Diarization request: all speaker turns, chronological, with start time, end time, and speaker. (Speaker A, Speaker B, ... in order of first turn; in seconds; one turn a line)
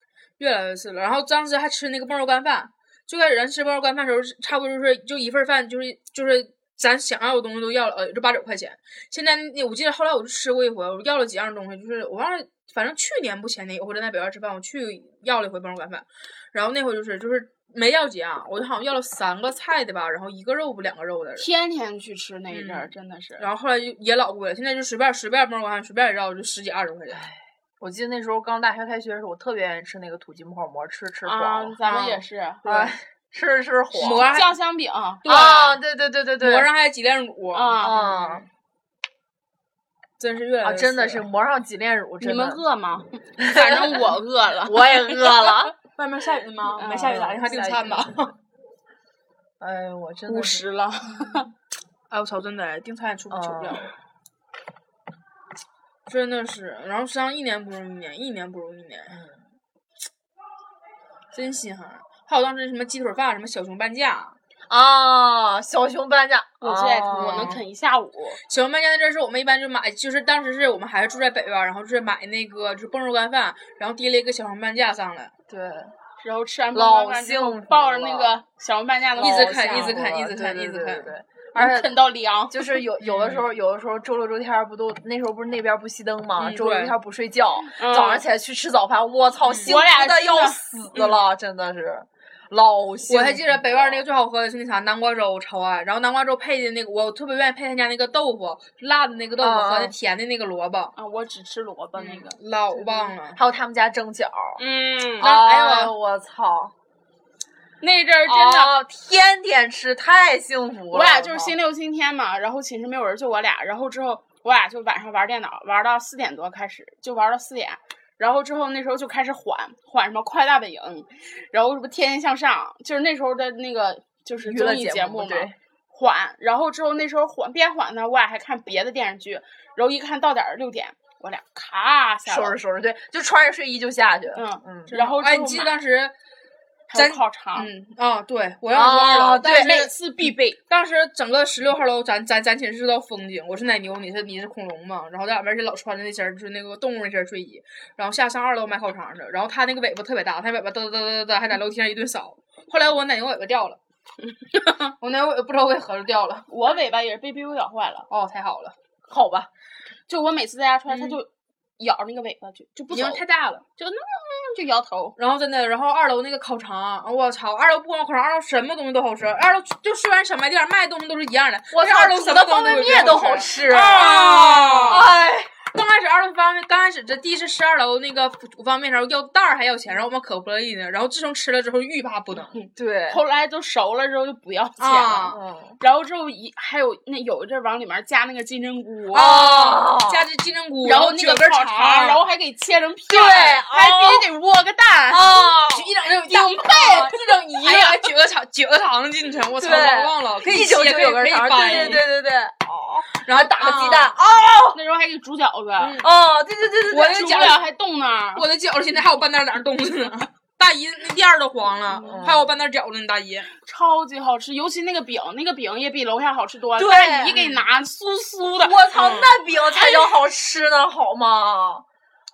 Speaker A: 0.4-21.5
Speaker B: 21.4-23.4
Speaker A: 22.5-27.2
Speaker C: 27.1-31.8
Speaker B: 31.2-32.9
Speaker A: 31.9-32.2
Speaker C: 32.6-34.4
Speaker A: 34.0-34.5
Speaker B: 34.0-35.3
Speaker A: 35.2-35.8
Speaker C: 35.2-36.7
Speaker A: 36.4-38.5
Speaker B: 37.5-38.0
Speaker C: 37.8-38.5
Speaker A: 40.2-41.3
Speaker C: 40.6-42.6
Speaker B: 42.2-45.2
Speaker C: 43.4-44.0
Speaker C: 44.6-45.7
Speaker A: 45.8-48.3
Speaker B: 46.8-47.3
Speaker C: 46.9-48.1
Speaker C: 49.6-50.6
Speaker B: 50.3-51.5
Speaker A: 52.1-53.9
Speaker C: 53.3-53.9
Speaker A: 56.1-59.2
Speaker C: 59.1-59.4
Speaker A: 61.3-64.3
Speaker C: 64.7-67.6
Speaker B: 66.6-68.4
Speaker A: 67.1-67.6
Speaker A: 68.5-75.3
Speaker C: 75.5-75.9
Speaker B: 76.2-80.0
Speaker C: 76.7-78.4
Speaker A: 79.2-81.1
Speaker C: 79.2-82.0
Speaker B: 81.5-82.8
Speaker C: 82.5-94.0
Speaker A: 83.0-83.5
Speaker A: 86.4-86.9
Speaker B: 87.7-88.2
Speaker A: 89.4-89.8
Speaker B: 89.6-90.6
Speaker A: 90.9-91.2
Speaker A: 93.1-100.9
Speaker C: 99.4-99.9
Speaker B: 101.0-102.4
Speaker A: 102.0-103.4
Speaker C: 103.3-104.6
Speaker B: 104.6-105.3
Speaker A: 105.2-105.9
Speaker C: 105.2-106.7
Speaker B: 107.8-108.8
Speaker C: 108.2-111.5
Speaker B: 110.9-132.6
Speaker C: 124.4-125.5
Speaker C: 132.2-134.9
Speaker B: 134.3-135.7
Speaker A: 134.9-136.1
Speaker B: 136.9-137.7
Speaker A: 136.9-139.9
Speaker C: 138.7-139.9
Speaker B: 139.4-140.6
Speaker A: 140.7-153.8
Speaker B: 154.5-154.9
Speaker A: 155.0-156.5
Speaker B: 156.5-158.1
Speaker A: 158.1-158.7
Speaker C: 159.1-159.5
Speaker B: 160.1-163.2
Speaker A: 160.9-161.2
Speaker A: 162.9-163.6
Speaker B: 163.8-165.1
Speaker A: 165.2-182.6
Speaker C: 171.7-175.5
Speaker B: 172.6-173.5
Speaker B: 182.6-185.2
Speaker C: 182.7-183.2
Speaker A: 184.8-185.4
Speaker C: 185.1-185.8
Speaker B: 185.8-189.3
Speaker C: 189.1-190.2
Speaker A: 189.1-192.2
Speaker B: 190.8-195.4
Speaker C: 193.1-194.3
Speaker C: 195.1-195.9
Speaker A: 195.7-202.1
Speaker B: 196.2-198.1
Speaker C: 199.6-204.8
Speaker B: 201.6-202.0
Speaker A: 203.2-204.2
Speaker B: 204.7-206.0
Speaker A: 205.8-206.1
Speaker C: 206.0-207.3
Speaker A: 206.9-207.6
Speaker B: 206.9-208.4
Speaker A: 208.3-213.5
Speaker B: 211.9-212.2
Speaker C: 212.0-212.6
Speaker B: 213.6-218.9
Speaker C: 216.8-217.4
Speaker A: 217.3-217.6
Speaker C: 218.6-221.8
Speaker A: 218.9-219.3